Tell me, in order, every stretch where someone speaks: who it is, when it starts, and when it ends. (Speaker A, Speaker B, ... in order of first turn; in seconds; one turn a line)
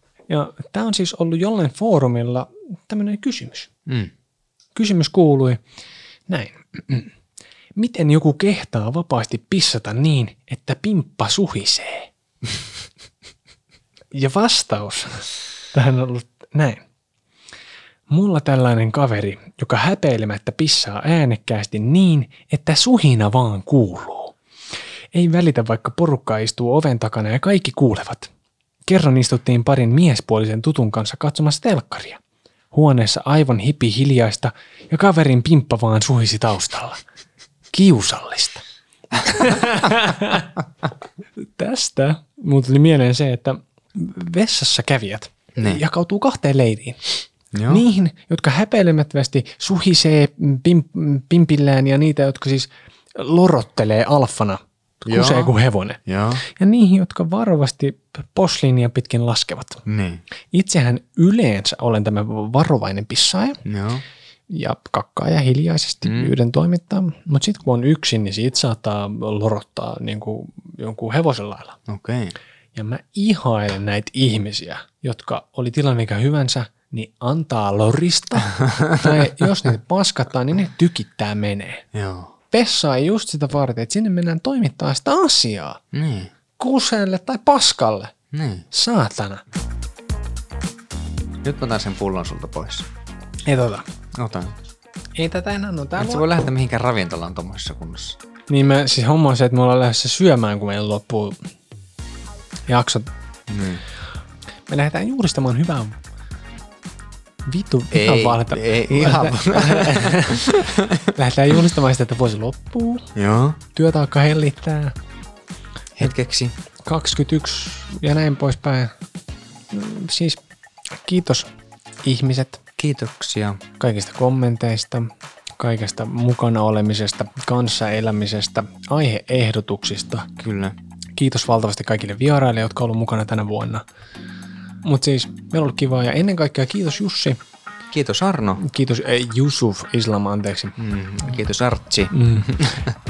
Speaker A: 0.3-3.7
Speaker B: 3.9-4.1
Speaker A: 4.7-5.6
Speaker A: 6.3-7.1
Speaker A: 7.8-12.1
Speaker A: 14.1-16.8
Speaker A: 18.1-24.4
Speaker A: 25.1-28.3
Speaker A: 28.9-32.2
Speaker A: 32.7-37.0
Speaker A: 37.7-38.6
Speaker A: 39.1-40.5
Speaker A: 41.4-59.8
Speaker B: 45.6-45.8
Speaker B: 47.5-47.8
Speaker B: 55.0-55.5
Speaker B: 56.0-56.4
Speaker B: 59.9-60.2
Speaker A: 60.5-63.6
Speaker B: 63.6-64.0
Speaker A: 64.5-71.8
Speaker B: 66.0-66.3
Speaker B: 71.9-72.3
Speaker A: 72.7-81.8
Speaker B: 81.9-82.3
Speaker A: 82.5-85.8
Speaker B: 85.9-86.3
Speaker A: 86.6-88.1
Speaker B: 88.3-88.7
Speaker A: 88.7-89.4
Speaker B: 91.4-92.9
Speaker A: 93.5-93.9
Speaker B: 94.1-94.5
Speaker A: 95.2-96.2
Speaker B: 96.0-98.2
Speaker A: 98.5-101.4
Speaker A: 102.7-103.1
Speaker B: 103.5-103.8
Speaker A: 104.7-106.0
Speaker A: 107.5-113.1
Speaker B: 107.9-111.1
Speaker B: 113.1-113.6
Speaker A: 113.7-115.0
Speaker B: 116.0-116.5
Speaker A: 116.8-118.9
Speaker A: 119.7-120.4
Speaker A: 121.0-121.5
Speaker A: 122.0-122.6
Speaker B: 122.8-123.6
Speaker A: 123.8-130.3
Speaker B: 130.4-130.8
Speaker A: 131.2-133.8
Speaker A: 134.8-137.4
Speaker B: 137.9-138.6
Speaker A: 138.6-140.8
Speaker B: 140.8-142.9
Speaker A: 142.1-142.6